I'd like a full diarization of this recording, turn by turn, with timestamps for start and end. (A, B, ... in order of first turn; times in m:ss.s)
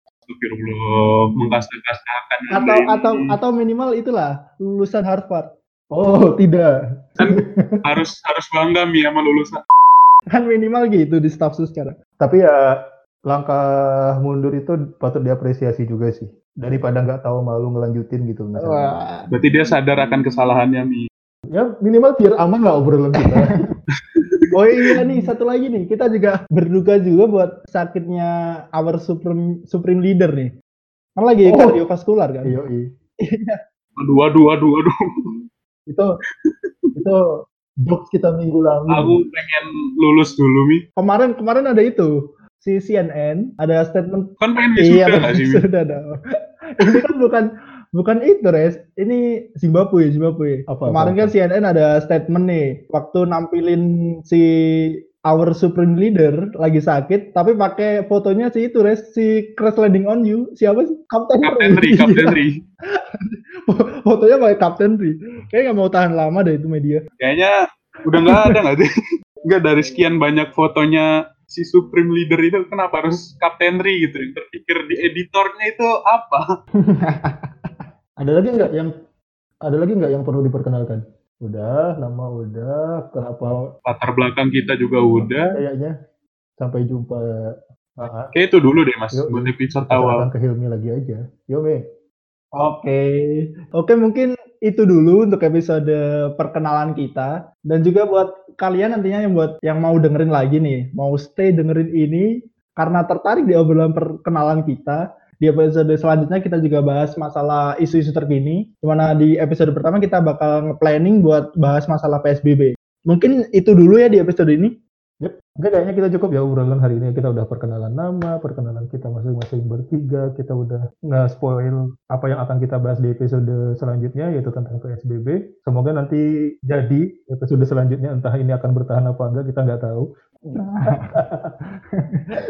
0:00.3-0:03.3 A
0:02.5-0:05.5 B
0:05.9-0:07.7 C
0:07.2-0:09.6 A
0:10.3-0:12.0 B
0:12.2-0:19.0 C
0:18.6-0:19.3 B
0:19.3-0:21.1 A
0:21.5-0:23.6 C
0:23.2-0:23.5 B
0:24.2-0:24.4 A
0:24.5-0:30.5 B
0:31.2-0:32.6 B
0:31.4-0:31.8 C
0:32.4-0:32.9 C
0:33.2-0:33.6 B
0:34.0-0:34.9 A
0:37.0-0:37.2 C
0:37.8-0:39.2 C
0:38.9-0:40.8 A
0:41.0-0:46.2 B
0:44.4-0:45.6 A
0:46.8-1:02.4 B
0:50.7-0:51.3 C
1:01.4-1:02.5 A
1:03.2-1:07.0 B
1:07.2-1:07.5 A
1:08.0-1:08.9 A
1:09.5-1:16.4 A
1:16.9-1:17.5 B
1:18.2-1:18.9 C
1:19.6-1:23.7 C
1:23.9-1:25.6 A
1:25.6-1:26.0 C
1:26.6-1:27.2 C
1:28.0-1:28.3 C
1:28.3-1:30.3 A
1:29.1-1:31.8 C
1:32.6-1:54.7 B
1:55.2-2:10.6 C
2:10.5-2:11.2 B
2:11.1-2:11.5 C